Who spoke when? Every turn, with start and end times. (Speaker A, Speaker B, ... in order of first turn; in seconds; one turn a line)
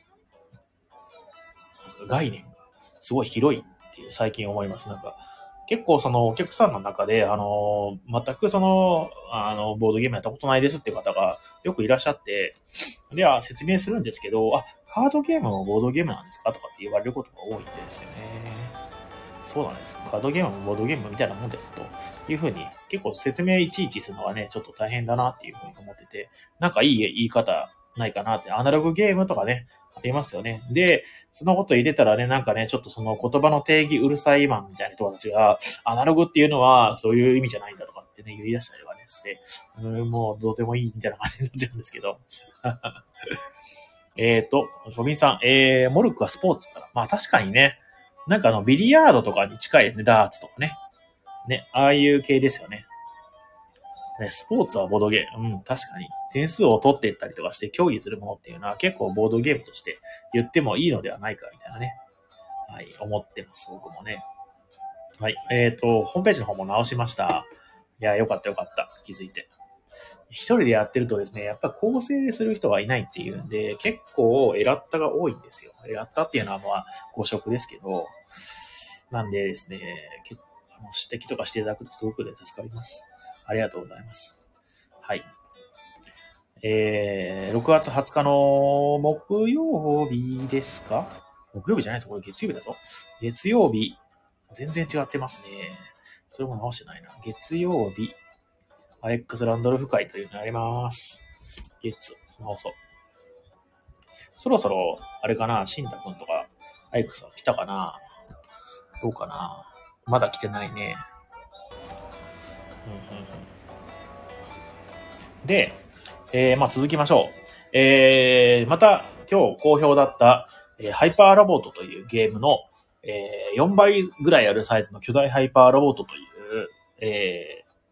Speaker A: 1.8-12.6
Speaker A: 13.1-18.8
Speaker A: 19.4-43.0
Speaker A: 44.1-50.8
Speaker A: 51.5-52.9
Speaker A: 54.2-62.0
Speaker A: 62.7-64.2
Speaker A: 65.2-67.5
Speaker A: 68.0-69.5
Speaker A: 70.3-78.2
Speaker A: 79.1-84.4
Speaker A: 85.0-85.3
Speaker A: 86.6-98.2
Speaker A: 99.0-101.2
Speaker A: 101.8-102.8
Speaker A: 104.3-108.0
Speaker A: 109.0-111.0
Speaker A: 112.8-113.5
Speaker A: 115.4-127.7